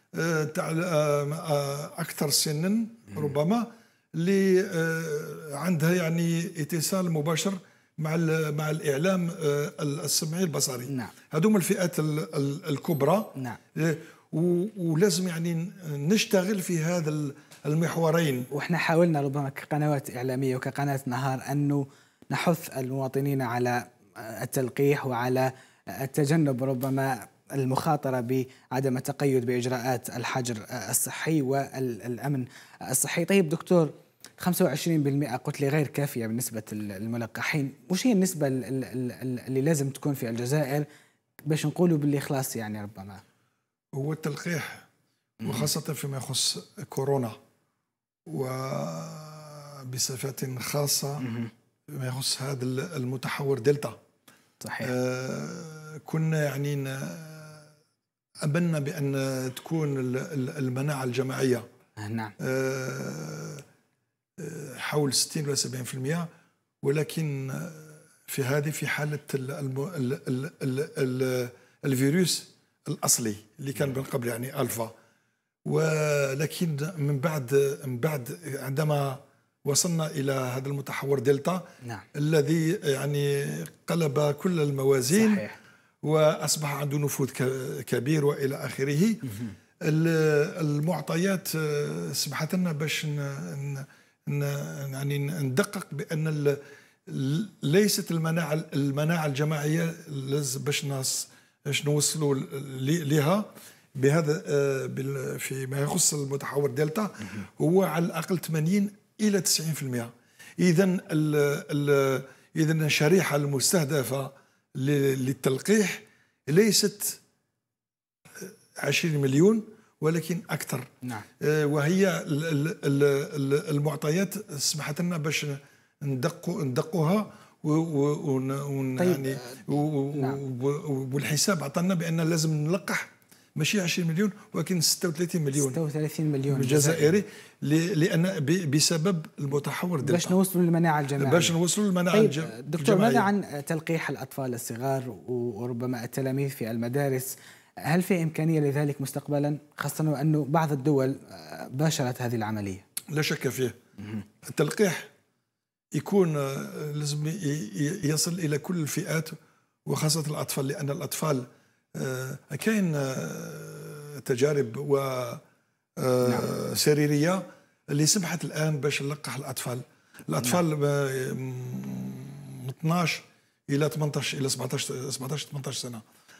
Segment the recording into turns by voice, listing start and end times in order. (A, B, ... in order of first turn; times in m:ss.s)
0:00.1-0:18.5 A
0:18.5-0:40.8 B
0:41.5-0:43.2 B
0:44.0-0:44.9 A
0:45.4-0:47.4 A
0:45.4-0:45.7 B
0:48.3-0:51.2 A
0:51.2-0:51.5 B
0:51.9-0:54.0 A
0:54.6-0:54.9 B
0:54.8-0:57.7 A
0:58.4-1:01.6 A
1:02.0-1:02.3 B
1:02.4-1:03.6 A
1:04.4-1:06.3 A
1:06.8-1:14.9 A
1:15.6-1:25.4 A
1:25.1-1:25.6 B
1:26.0-1:29.2 A
1:29.8-1:57.2 A
1:58.4-2:00.9 A
2:01.4-2:15.8 A
2:09.0-2:09.6 B
2:10.1-2:10.4 B
2:15.6-2:17.2 B
2:16.5-2:20.4 A
2:20.0-2:21.6 B
2:21.2-2:23.3 A
2:22.1-2:27.3 B
2:27.8-2:32.8 B
2:33.1-2:33.8 A
2:34.4-2:35.1 A
2:36.0-2:39.4 A
2:39.9-2:45.4 A
2:46.0-2:56.0 A
2:46.2-2:46.5 B